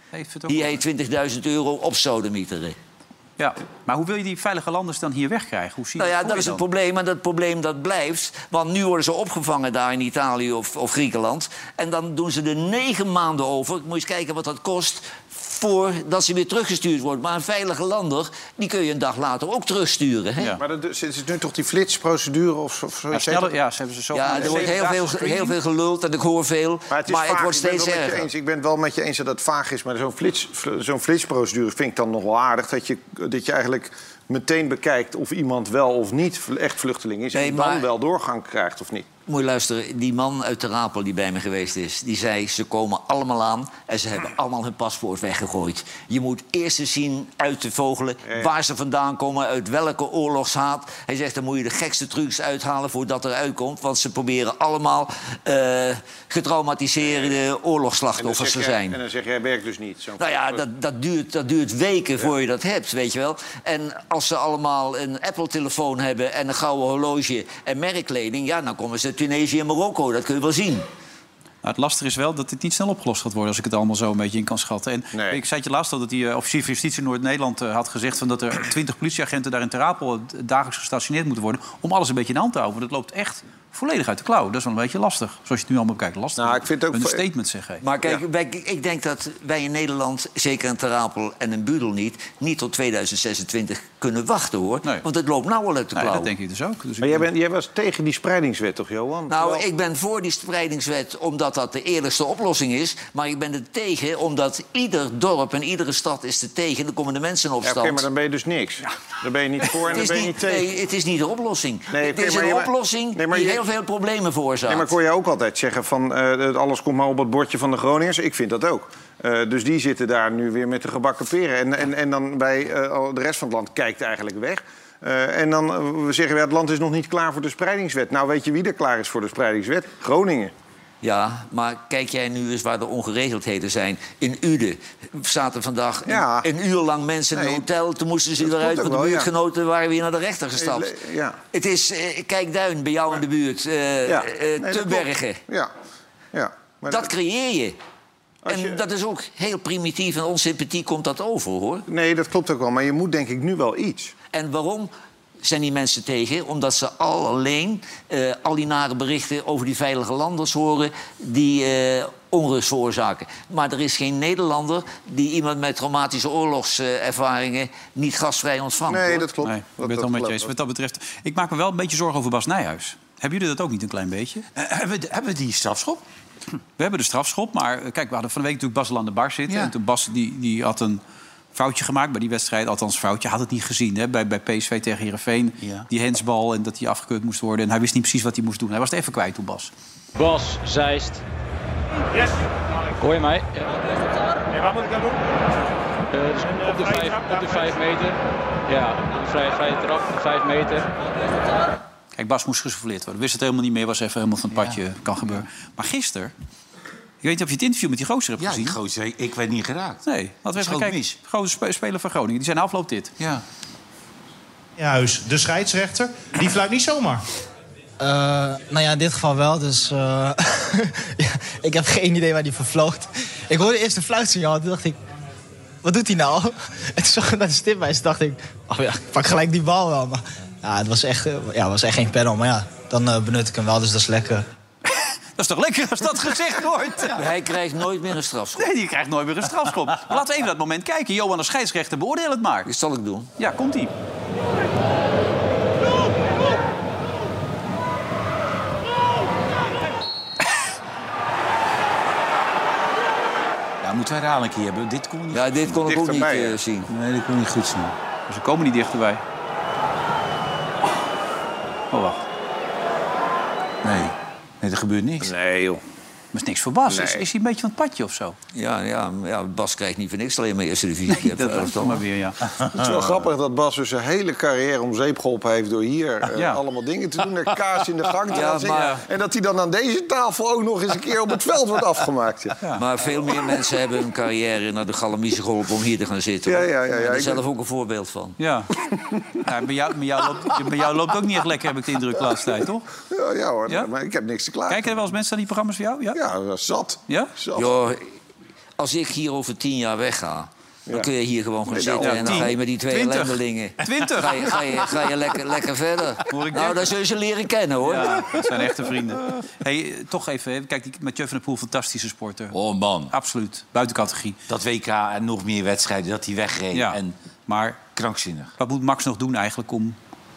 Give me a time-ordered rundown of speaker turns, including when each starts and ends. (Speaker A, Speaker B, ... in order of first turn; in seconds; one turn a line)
Speaker A: 0.1-0.8
Speaker B: 0.5-2.8
Speaker A: 3.4-6.6
Speaker B: 6.0-20.6
Speaker C: 20.6-23.5
Speaker A: 23.1-25.6
Speaker B: 24.1-28.3
Speaker C: 24.3-24.8
Speaker C: 26.9-39.1
Speaker B: 37.3-37.9
Speaker B: 39.3-59.0
Speaker C: 57.0-57.3
Speaker C: 58.1-60.6
Speaker B: 60.2-70.9
Speaker A: 71.6-87.8
Speaker C: 75.1-75.4
Speaker C: 86.4-87.2
Speaker B: 87.8-96.3
Speaker A: 95.9-97.3
Speaker C: 97.0-99.6
Speaker B: 99.3-108.0
Speaker C: 107.6-110.7
Speaker B: 109.8-114.9
Speaker C: 111.9-113.6
Speaker C: 114.7-130.5
Speaker B: 131.0-140.9
Speaker C: 136.1-136.5
Speaker C: 137.3-137.6
Speaker C: 138.4-139.3
Speaker C: 140.6-141.4
Speaker B: 141.5-145.4
Speaker C: 144.1-145.7
Speaker C: 146.3-147.1
Speaker B: 146.9-147.8
Speaker C: 148.4-148.8
Speaker B: 148.4-151.9
Speaker C: 151.9-154.1
Speaker B: 154.3-154.9
Speaker B: 155.4-169.3
Speaker C: 168.9-170.5
Speaker A: 169.4-174.4
Speaker D: 174.5-176.0
Speaker A: 176.8-181.0
Speaker D: 179.5-179.7
Speaker A: 181.5-189.7
Speaker D: 185.6-185.9
Speaker E: 190.1-191.2
Speaker E: 192.9-193.8
Speaker E: 194.6-194.9
Speaker E: 196.1-200.9
Speaker A: 202.1-206.3
Speaker A: 207.2-208.8
Speaker D: 208.4-210.0
Speaker A: 210.0-213.2
Speaker D: 210.5-211.2
Speaker F: 214.8-217.2
Speaker G: 218.0-225.0
Speaker G: 225.8-234.4
Speaker A: 234.9-237.2
Speaker B: 237.1-238.7
Speaker A: 238.6-242.7
Speaker B: 242.7-243.3
Speaker A: 243.4-243.9
Speaker D: 253.8-255.7
Speaker B: 255.3-256.9
Speaker C: 255.8-256.6
Speaker D: 256.9-257.9
Speaker A: 258.3-259.2
Speaker A: 261.9-262.2
Speaker D: 263.8-265.3
Speaker C: 265.2-265.8
Speaker A: 266.3-268.4
Speaker C: 266.9-267.2
Speaker B: 268.5-272.0
Speaker A: 271.1-272.5
Speaker C: 272.7-282.6
Speaker A: 276.4-276.6
Speaker B: 278.3-279.0
Speaker A: 278.7-279.0
Speaker B: 282.7-288.4
Speaker C: 286.4-287.4
Speaker A: 288.4-288.7
Speaker A: 289.4-292.9
Speaker C: 293.1-294.9
Speaker A: 294.7-296.2
Speaker C: 296.1-297.7
Speaker B: 297.5-298.1
Speaker B: 298.8-308.4
Speaker C: 301.7-302.5
Speaker A: 302.0-304.9
Speaker A: 306.3-306.9
Speaker A: 307.8-312.5
Speaker D: 312.5-313.1
Speaker A: 313.1-314.4
Speaker D: 314.5-317.1
Speaker A: 316.7-317.8
Speaker D: 317.8-318.5
Speaker A: 318.6-320.0